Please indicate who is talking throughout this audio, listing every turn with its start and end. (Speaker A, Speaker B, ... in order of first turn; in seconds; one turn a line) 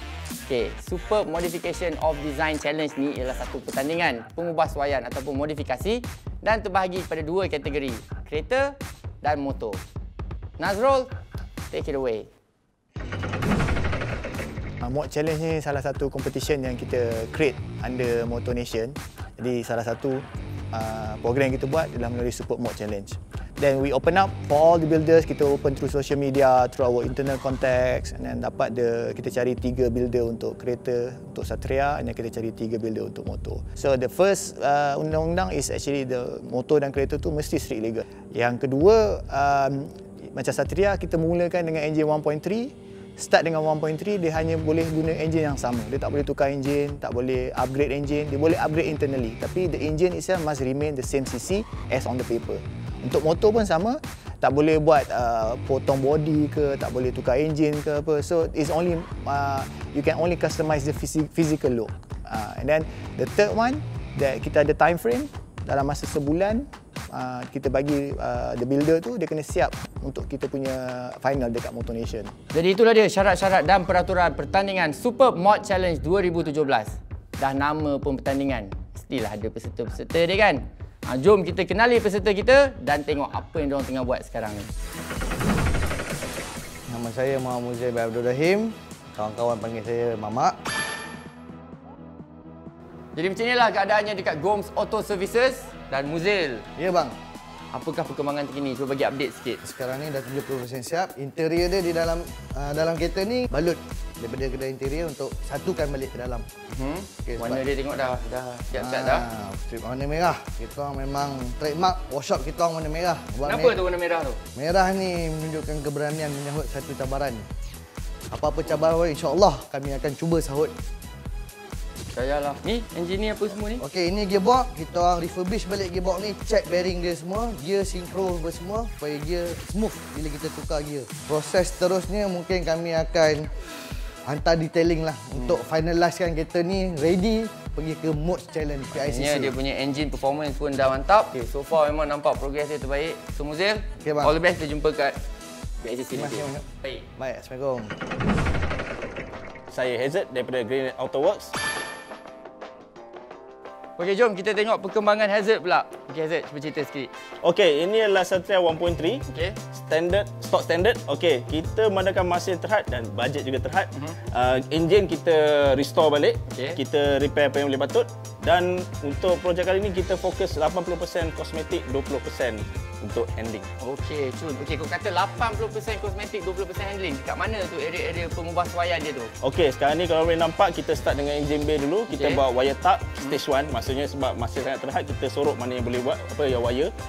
Speaker A: 0.5-9.8
Speaker A: 10.6-11.1
Speaker A: 11.7-12.3
Speaker B: 14.8-72.3
Speaker A: 72.5-84.7
Speaker C: 86.9-90.6
Speaker A: 93.1-96.7
Speaker C: 96.8-97.2
Speaker A: 97.7-99.6
Speaker C: 99.6-106.5
Speaker A: 106.7-109.3
Speaker C: 107.2-107.6
Speaker C: 108.8-113.8
Speaker A: 113.4-114.4
Speaker C: 114.5-117.5
Speaker C: 118.3-120.7
Speaker A: 122.1-123.8
Speaker C: 123.8-133.5
Speaker C: 134.2-139.5
Speaker A: 135.3-135.6
Speaker A: 138.9-145.2
Speaker C: 144.0-144.3
Speaker A: 145.8-147.0
Speaker C: 146.1-148.0
Speaker D: 149.7-151.5
Speaker A: 154.0-157.1
Speaker D: 157.4-159.2
Speaker A: 159.3-159.6
Speaker D: 159.7-173.7
Speaker A: 166.5-166.8
Speaker A: 173.8-179.3
Speaker D: 179.4-186.9
Speaker A: 182.1-182.4